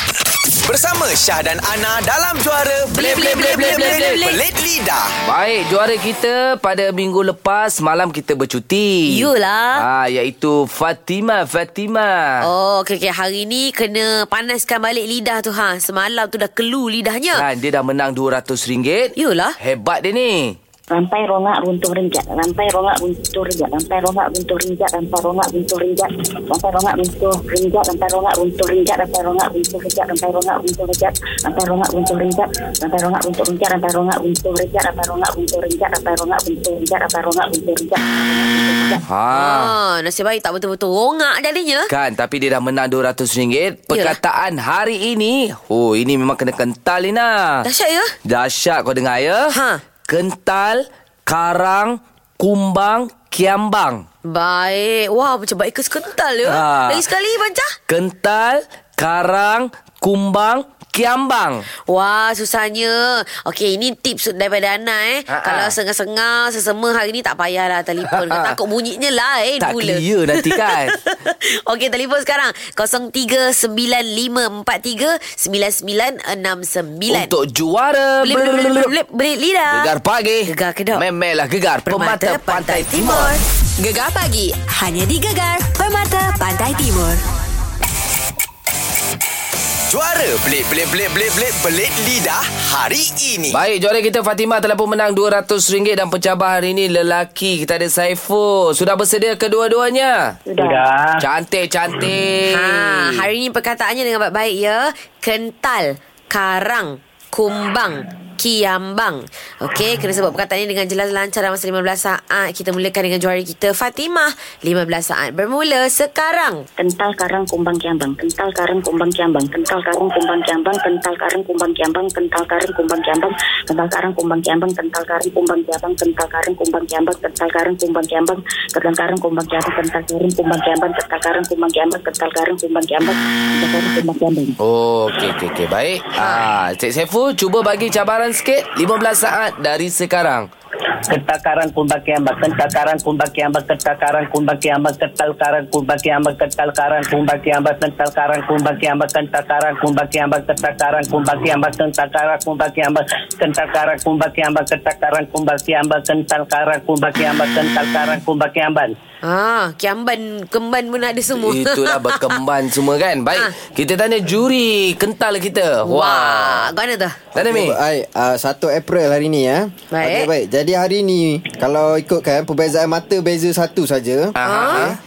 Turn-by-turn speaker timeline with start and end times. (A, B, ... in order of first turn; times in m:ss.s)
0:00.6-0:05.1 A
0:03.0-0:04.0 B
0:03.0-0:04.2 C
0:05.2-0:12.5 C
0:09.1-0:09.8 B
0:12.4-0:17.4 B
0:17.3-0:20.6 C
0:19.2-0:19.6 B
0:20.9-0:39.0 D
0:39.0-0:39.7 C
0:39.3-0:41.9 B
0:41.9-0:47.7 C
0:43.9-0:44.2 B
0:47.6-0:48.1 B
0:48.2-0:49.5 C
0:49.5-0:49.8 B
0:50.1-0:54.0 C
0:54.2-0:57.8 B
0:56.4-0:57.0 C
0:57.9-1:01.6 C
1:01.9-1:17.3 B
1:05.3-1:05.7 C
1:08.0-1:08.6 C
1:09.6-1:10.9 C
1:17.1-1:18.9 C
1:18.2-1:19.9 B
1:19.7-1:23.3 C
1:20.4-1:21.0 B
1:21.9-1:23.4 B
1:23.8-1:27.2 E
1:29.9-1:33.6 A
1:33.5-1:40.4 C
1:40.5-1:40.8 D
1:40.6-1:41.2 F
1:41.2-1:43.2 C
1:42.5-1:56.7 B
1:56.8-2:14.6 D
2:14.6-2:20.5 C
2:21.1-2:38.9 F
2:39.2-2:42.4 B
2:41.3-2:46.7 C
2:45.8-2:47.2 B
2:47.3-2:47.8 C
2:47.4-2:54.4 G
2:49.9-2:50.3 B
2:54.4-2:55.0 C
2:54.4-2:54.9 B